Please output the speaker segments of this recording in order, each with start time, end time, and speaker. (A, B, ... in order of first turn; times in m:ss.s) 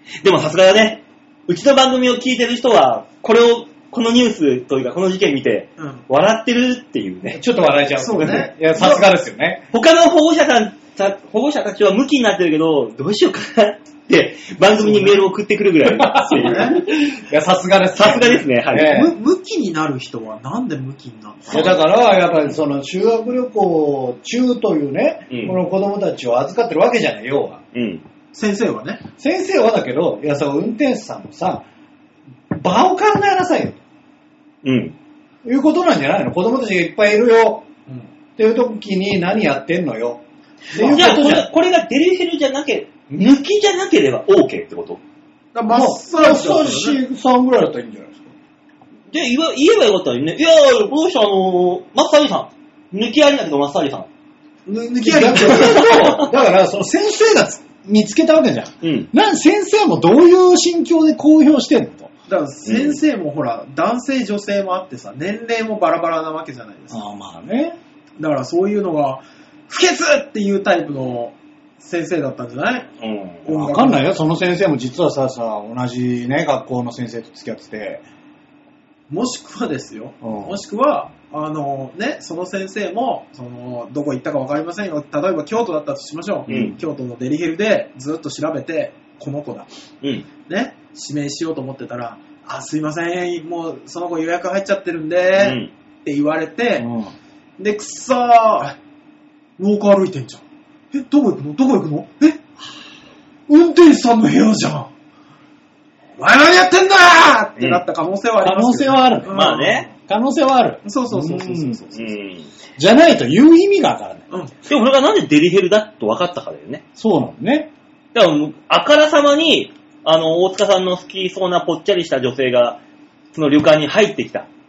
0:00.2-0:07.4 A
0:05.8-0:06.0 B
0:07.3-0:09.6 C
0:08.0-0:09.0 B
0:09.7-0:16.8 A
0:14.8-0:15.3 B
0:16.0-0:19.2 C
0:16.2-0:16.8 B
0:17.9-0:18.9 A
0:18.8-0:21.7 B
0:21.5-0:27.6 C
0:25.3-0:25.6 A
0:27.7-0:28.0 A
0:28.3-0:29.0 B
0:29.2-0:31.6 C
0:32.5-0:33.8 C
0:34.6-0:35.0 A
0:35.4-0:37.6 C
0:38.4-0:40.2 C
0:40.7-0:41.2 B
0:40.7-0:41.5 C
0:40.8-0:45.0 A
0:45.5-0:47.0 B
0:45.7-0:48.3 C
0:49.1-0:54.1 A
0:54.6-0:55.9 B
0:55.0-1:02.1 C
0:55.4-0:56.3 A
0:58.8-0:59.1 A
1:02.3-1:07.0 B
1:02.6-1:03.0 A
1:06.9-1:07.8 C
1:08.2-1:12.9 B
1:13.0-1:13.4 A
1:13.4-1:14.0 B
1:13.5-1:18.0 C
1:19.1-1:29.7 B
1:20.2-1:20.6 C
1:26.5-1:26.7 C
1:30.4-1:36.9 B
1:35.4-1:35.7 A
1:36.8-1:37.1 C
1:37.6-1:38.8 B
1:39.6-1:42.4 B
1:43.5-1:44.9 B
1:46.2-1:49.9 B
1:48.4-1:49.4 C
1:49.3-1:49.9 A
1:50.0-1:51.8 C
1:50.8-1:52.2 B
1:51.9-1:52.5 A
1:52.8-1:54.2 C
1:54.7-1:56.8 A
1:57.0-1:57.7 C
1:58.1-2:02.8 A
2:03.3-2:04.5 A